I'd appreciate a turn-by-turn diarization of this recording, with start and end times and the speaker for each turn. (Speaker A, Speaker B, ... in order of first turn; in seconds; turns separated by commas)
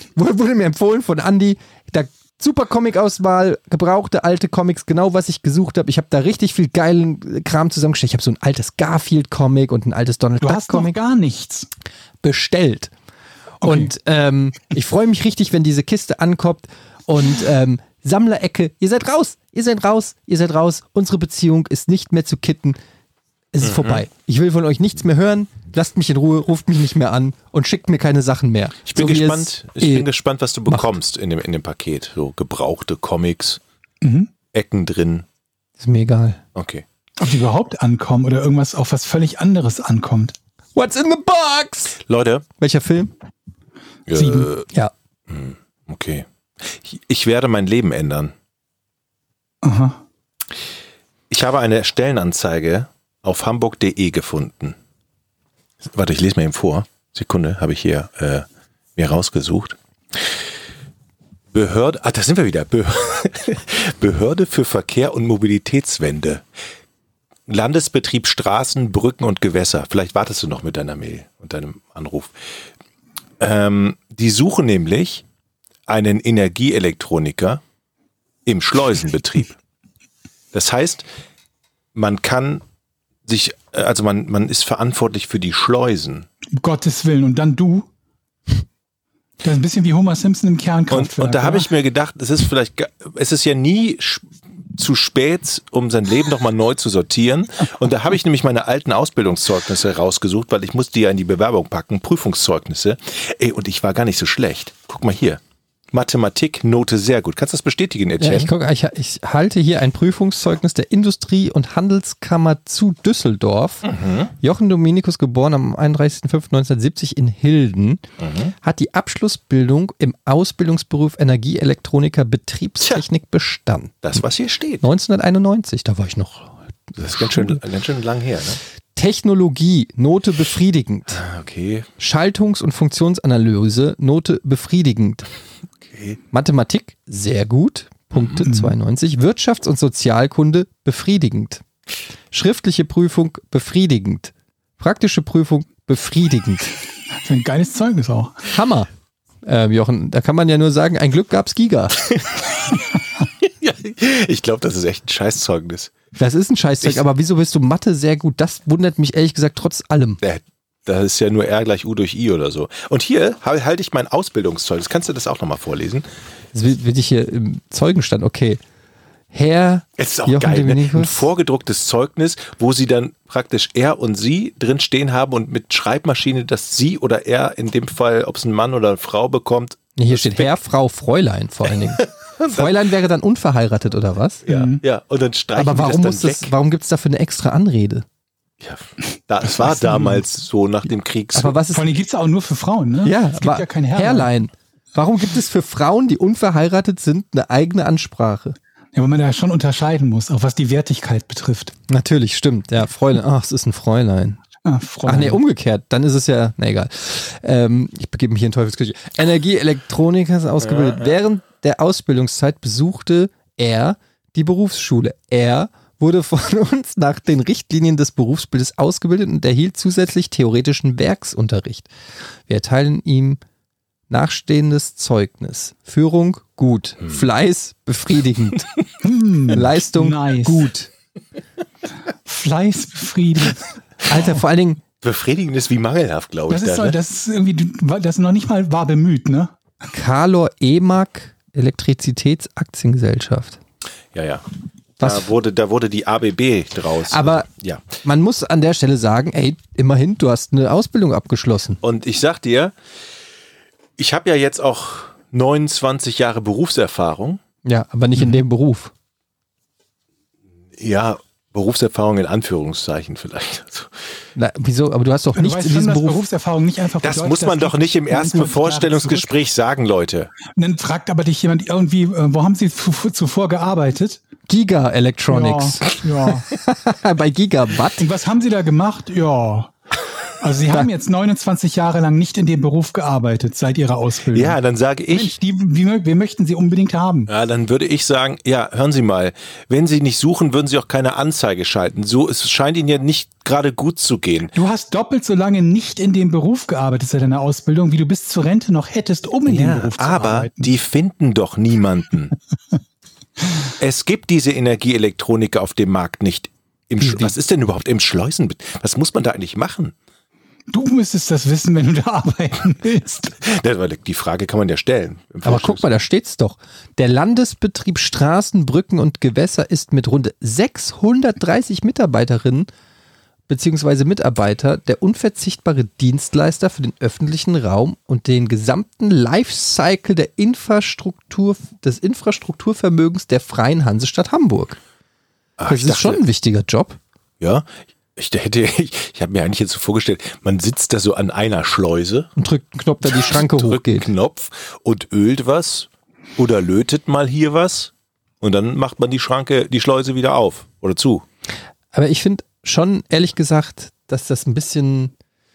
Speaker A: 0.1-10.9, Speaker B: 10.4-11.7, Speaker A: 12.2-12.9, Speaker B: 13.6-13.9, Speaker A: 13.6-22.8, Speaker A: 23.5-30.1, Speaker C: 23.6-24.0, Speaker C: 28.9-33.6, Speaker B: 34.0-34.3, Speaker C: 34.5-35.2, Speaker A: 35.8-36.4, Speaker C: 36.5-36.8, Speaker B: 37.2-40.3, Speaker A: 40.7-42.0, Speaker C: 42.0-42.4, Speaker A: 42.6-43.1, Speaker C: 44.1-44.6, Speaker B: 44.1-44.5, Speaker A: 44.6-44.9, Speaker C: 45.3-48.3, Speaker B: 49.6-50.0, Speaker C: 51.3-54.8, Speaker C: 55.9-60.2, Speaker C: 61.5-66.4, Speaker C: 67.5-72.3, Speaker C: 73.4-75.2, Speaker C: 75.9-77.6, Speaker C: 78.5-79.6, Speaker C: 80.5-81.1, Speaker C: 81.9-82.6, Speaker C: 83.2-86.3, Speaker B: 86.5-87.9, Speaker B: 89.4-91.7, Speaker C: 90.9-105.4, Speaker C: 105.9-108.5, Speaker A: 108.2-118.0, Speaker C: 113.8-114.3, Speaker C: 118.2-118.5, Speaker A: 118.6-124.2, Speaker C: 124.0-124.8, Speaker A: 124.8-126.5, Speaker C: 127.0-128.6, Speaker A: 128.9-131.2, Speaker C: 131.1-131.9, Speaker A: 132.0-135.2, Speaker C: 135.9-136.2, Speaker A: 136.3-141.6, Speaker C: 138.1-138.4, Speaker B: 138.4-138.7, Speaker A: 142.3-146.7, Speaker B: 147.2-148.5, Speaker A: 148.5-148.9, Speaker A: 149.4-152.1, Speaker C: 153.4-155.9, Speaker A: 156.2-160.2, Speaker C: 160.2-166.1, Speaker A: 166.5-168.6, Speaker A: 169.3-171.3, Speaker C: 170.0-180.5, Speaker A: 179.9-184.4, Speaker C: 182.2-182.7, Speaker C: 184.4-186.5, Speaker B: 184.5-184.8, Speaker A: 185.6-188.0, Speaker C: 188.6-191.6, Speaker B: 189.7-190.1, Speaker A: 191.3-191.9, Speaker B: 191.7-194.3, Speaker A: 193.0-198.6, Speaker B: 198.9-201.7, Speaker A: 201.9-204.4, Speaker B: 204.6-205.4, Speaker A: 205.0-221.9, Speaker C: 210.6-211.1, Speaker A: 222.5-223.4, Speaker A: 224.1-228.7, Speaker B: 229.0-230.7, Speaker A: 229.5-230.9, Speaker B: 232.2-234.2, Speaker A: 234.1-234.8, Speaker C: 235.0-237.0, Speaker B: 236.5-239.5, Speaker A: 239.9-243.6, Speaker C: 244.1-244.4, Speaker C: 245.0-247.9, Speaker A: 245.0-245.3, Speaker A: 247.1-251.8, Speaker C: 251.8-252.7, Speaker C: 254.0-257.4, Speaker A: 257.6-258.9, Speaker C: 260.8-263.9, Speaker A: 264.4-266.2, Speaker B: 265.3-269.3, Speaker C: 267.0-270.3, Speaker B: 270.5-274.2, Speaker A: 274.5-278.1, Speaker B: 275.3-276.5, Speaker B: 278.0-279.7, Speaker B: 280.4-284.6, Speaker C: 284.3-285.4, Speaker B: 285.1-287.3, Speaker C: 287.3-294.5, Speaker B: 294.5-300.7, Speaker C: 299.4-302.4, Speaker C: 303.8-309.9, Speaker A: 307.0-307.3, Speaker B: 310.7-313.3, Speaker C: 313.4-315.9, Speaker A: 315.4-322.7, Speaker A: 323.5-334.8, Speaker C: 335.6-336.2, Speaker A: 335.7-337.0, Speaker C: 337.4-342.3, Speaker A: 342.4-344.1, Speaker C: 343.1-351.2, Speaker A: 351.9-355.1